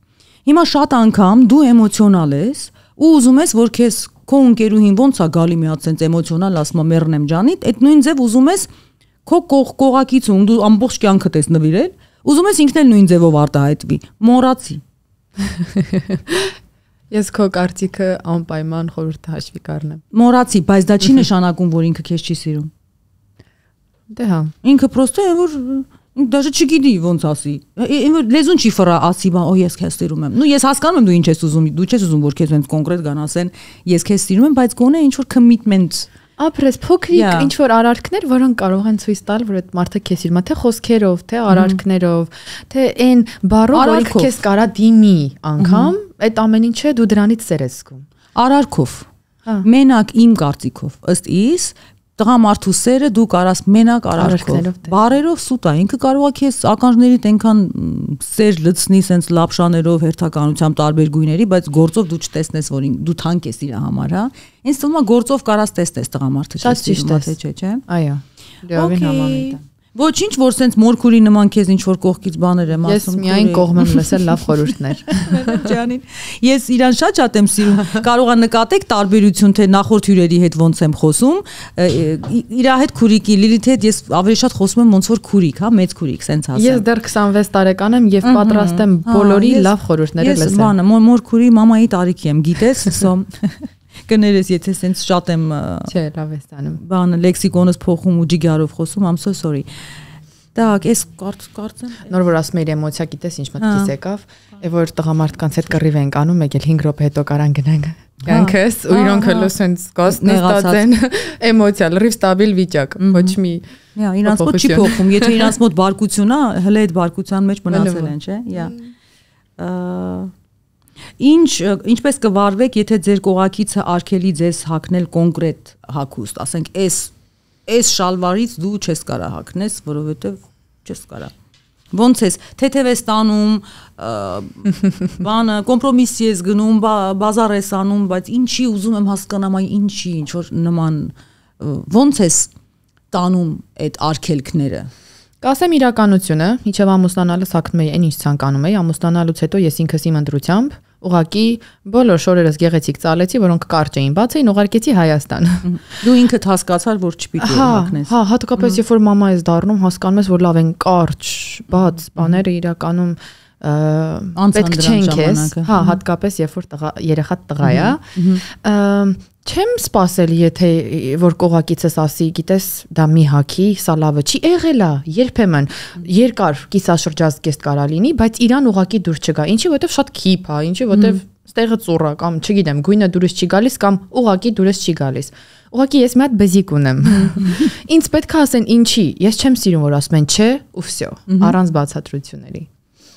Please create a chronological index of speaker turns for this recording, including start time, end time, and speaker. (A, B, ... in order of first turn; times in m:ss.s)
0:00.4-0:08.7 A
0:09.2-0:14.8 A
0:15.7-0:16.5 B
0:17.1-0:20.0 B
0:20.1-0:22.7 A
0:24.1-0:24.5 B
0:24.6-0:36.1 A
0:36.4-0:48.0 B
0:37.1-0:37.5 A
0:41.5-0:41.8 A
0:43.7-0:44.4 A
0:45.6-0:45.9 A
0:48.3-0:49.1 A
0:49.6-1:07.8 A
0:54.2-0:54.9 B
1:06.6-1:07.3 B
1:07.9-1:09.6 B
1:08.7-1:14.5 A
1:12.8-1:15.6 B
1:15.1-1:26.8 A
1:26.5-1:30.7 B
1:28.2-1:35.9 A
1:35.9-1:36.8 B
1:36.8-1:39.7 A
1:40.5-1:42.1 A
1:42.1-1:53.6 B
1:43.6-1:43.9 A
1:48.2-1:49.5 A
1:50.0-1:50.8 A
1:53.0-1:53.4 A
1:54.0-1:58.8 A
1:54.2-1:55.5 B
1:57.7-1:58.8 B
1:59.6-2:00.3 A
2:01.2-2:07.1 A
2:07.6-2:11.3 A
2:11.9-2:22.5 A
2:23.1-2:24.9 A
2:25.4-2:35.7 B
2:35.6-2:38.8 A
2:37.4-3:12.7 B
2:42.2-2:42.4 A
2:44.4-2:46.0 A
2:47.6-2:48.4 A
3:00.9-3:01.2 A
3:07.0-3:07.7 A
3:11.3-3:11.6 A